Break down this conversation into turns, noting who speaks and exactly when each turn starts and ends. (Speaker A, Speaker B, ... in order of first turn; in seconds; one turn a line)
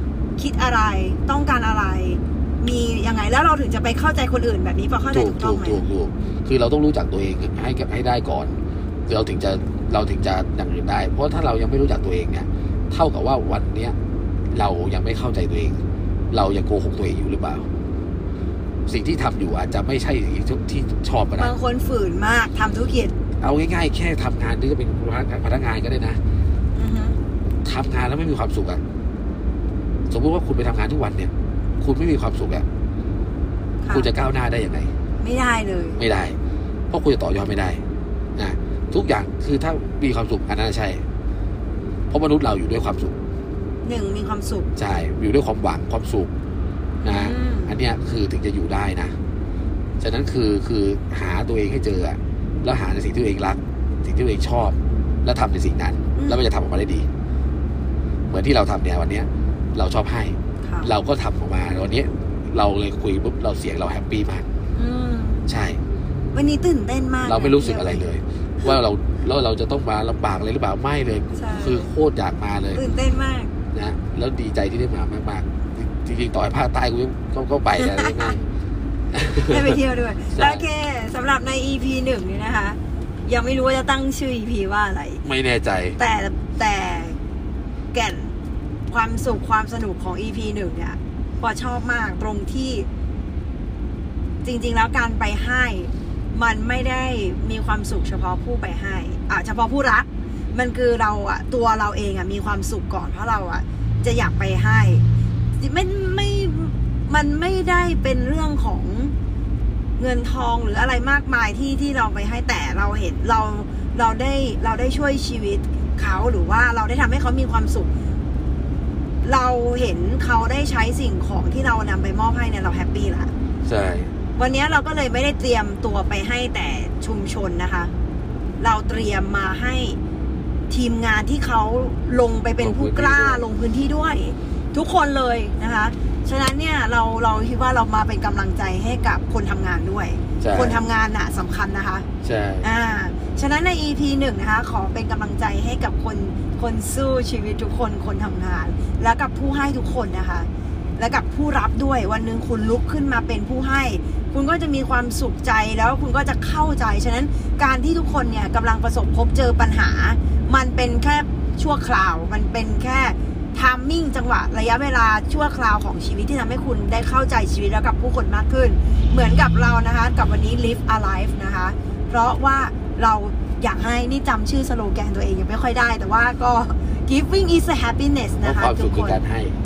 Speaker A: 0.4-5.8
Speaker B: 5.1-13.9
Speaker B: 14.5-17.7
Speaker B: 18.9-21.5
Speaker A: 21.4-23.1
Speaker B: 23.4-26.2
Speaker A: 26.7-27.2
Speaker B: 27.6-28.8
Speaker B: 30.1-32.6
Speaker A: 33.8-34.1
Speaker B: 33.9-34.9
Speaker A: 35.2-36.0
Speaker B: 36.0-36.4
Speaker B: 36.9-37.8
Speaker B: 38.4-41.0
Speaker B: 42.1-43.2
Speaker A: 43.8-44.7
Speaker B: 44.8-46.3
Speaker A: 47.0-47.8
Speaker B: 47.0-49.1
Speaker B: 50.0-57.1
Speaker A: 56.1-56.4
Speaker B: 58.3-64.5
Speaker A: 60.6-60.9
Speaker A: 64.8-65.4
Speaker B: 65.5-65.8
Speaker A: 66.3-68.0
Speaker B: 67.2-72.8
Speaker A: 71.3-71.9
Speaker A: 72.7-73.5
Speaker B: 73.7-78.4
Speaker A: 77.8-78.2
Speaker B: 79.1-79.8
Speaker A: 79.5-85.2
Speaker B: 80.3-80.7
Speaker B: 85.2-86.0
Speaker A: 86.0-87.2
Speaker A: 87.9-88.3
Speaker A: 88.9-92.9
Speaker A: 94.4-105.0
Speaker A: 105.6-109.1
Speaker A: 110.0-117.9
Speaker A: 119.2-123.3
Speaker B: 123.6-124.1
Speaker A: 124.3-127.9
Speaker A: 128.6-130.0
Speaker A: 130.7-142.1
Speaker B: 132.6-133.4
Speaker B: 140.4-140.8
Speaker B: 142.2-142.7
Speaker A: 142.6-179.2
Speaker B: 178.4-179.6